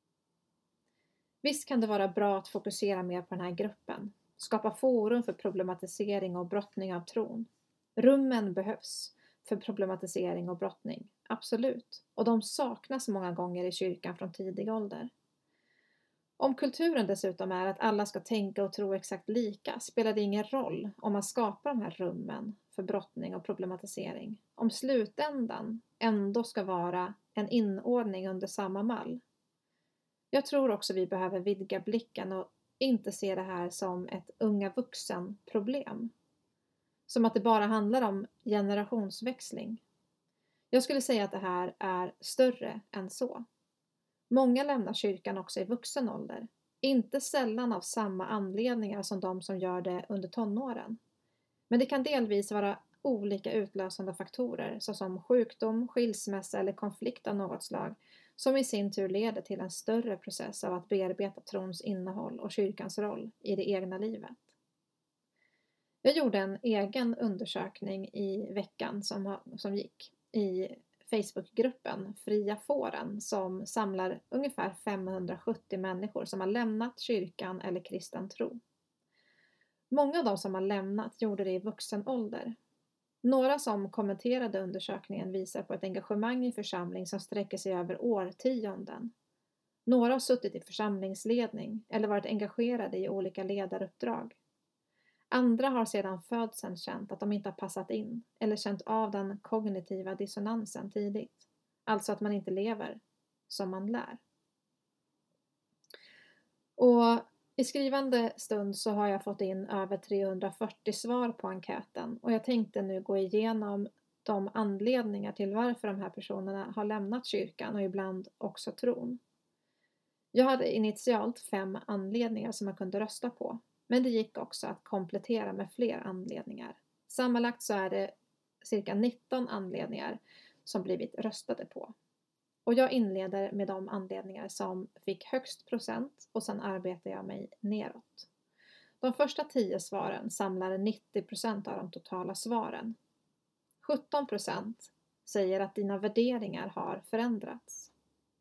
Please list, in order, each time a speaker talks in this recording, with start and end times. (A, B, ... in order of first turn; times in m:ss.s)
0:01.4-0:15.1 A
0:16.4-0:29.2 A
0:30.3-0:36.1 A
0:37.1-0:39.8 A
0:40.7-0:43.4 A
0:44.3-0:51.0 A
0:51.7-1:04.5 A
1:06.0-1:18.6 A
1:19.9-1:22.6 A
1:23.2-1:29.1 A
1:29.9-1:34.4 A
1:35.3-1:44.2 A
1:46.8-1:59.2 A
2:00.3-2:11.9 A
2:12.7-2:18.3 A
2:19.0-2:23.0 A
2:23.8-2:27.9 A